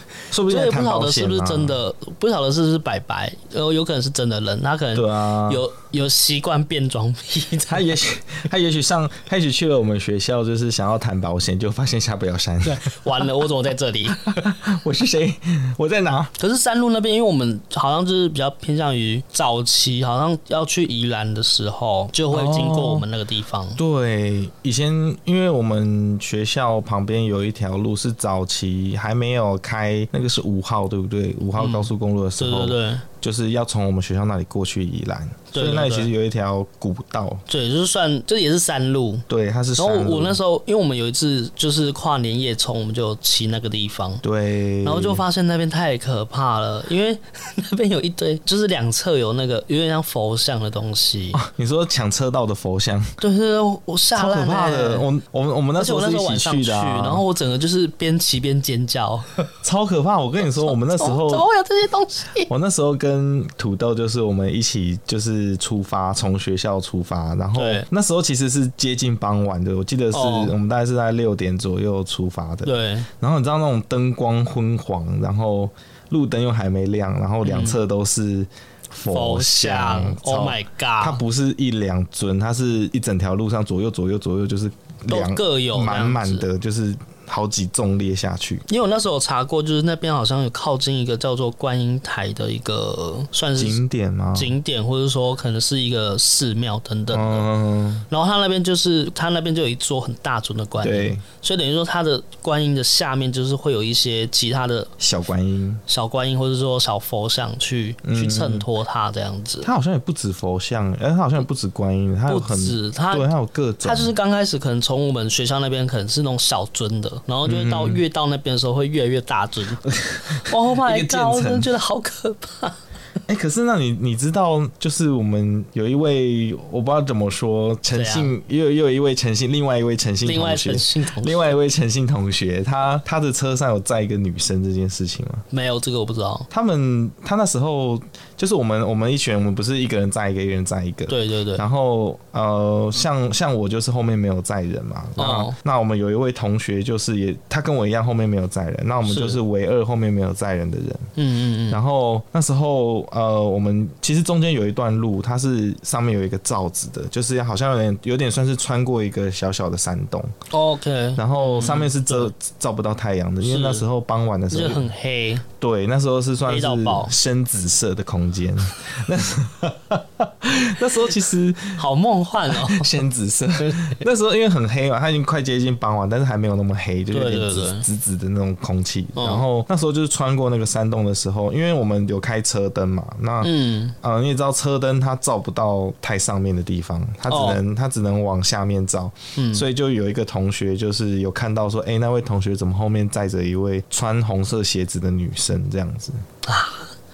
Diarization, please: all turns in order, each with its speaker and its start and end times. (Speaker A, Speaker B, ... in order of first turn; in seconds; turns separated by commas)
Speaker A: 0.3-1.8, Speaker B: 0.5-8.0, Speaker A: 5.0-5.6, Speaker A: 7.7-13.2, Speaker B: 12.6-14.3, Speaker A: 14.1-16.3, Speaker B: 16.4-23.8, Speaker A: 22.3-23.1, Speaker A: 23.8-37.4, Speaker B: 31.6-33.0, Speaker B: 35.5-36.1, Speaker B: 37.5-39.3, Speaker A: 39.3-40.4, Speaker B: 39.8-44.2, Speaker A: 44.2-45.2, Speaker B: 44.8-51.4, Speaker A: 51.3-53.1, Speaker B: 53.2-55.1, Speaker A: 54.1-57.2, Speaker B: 55.8-59.5, Speaker A: 59.6-61.5, Speaker B: 60.4-62.5, Speaker A: 62.5-88.6, Speaker B: 67.5-67.9, Speaker B: 70.1-70.5, Speaker B: 72.7-73.1, Speaker B: 77.4-77.8, Speaker B: 79.1-81.2, Speaker B: 85.1-86.5, Speaker B: 88.7-93.8, Speaker A: 93.6-94.5, Speaker B: 94.3-97.5, Speaker A: 97.1-98.1, Speaker B: 98.1-104.9, Speaker A: 100.8-101.2, Speaker A: 105.0-105.8, Speaker B: 105.9-109.7, Speaker A: 108.0-108.7, Speaker A: 109.6-114.1, Speaker B: 112.3-113.3, Speaker B: 113.8-119.9, Speaker A: 117.5-118.0, Speaker A: 119.9-121.7, Speaker B: 120.4-122.8, Speaker A: 123.3-135.4, Speaker B: 127.9-128.3, Speaker B: 130.2-131.6, Speaker B: 135.5-136.5, Speaker A: 136.5-151.1, Speaker B: 141.1-141.7, Speaker B: 145.2-145.6, Speaker B: 149.1-149.4, Speaker B: 151.2-151.8, Speaker A: 151.7-160.3, Speaker B: 160.5-162.3, Speaker A: 161.2-164.9, Speaker B: 163.4-163.9, Speaker B: 164.5-165.4, Speaker A: 165.6-171.8, Speaker B: 166.5-167.1, Speaker B: 171.8-172.9, Speaker A: 172.5-196.2, Speaker B: 173.6-174.0, Speaker B: 177.1-177.8, Speaker B: 179.2-179.4, Speaker B: 183.4-184.0, Speaker B: 187.3-187.6, Speaker B: 189.4-189.7, Speaker B: 196.4-196.9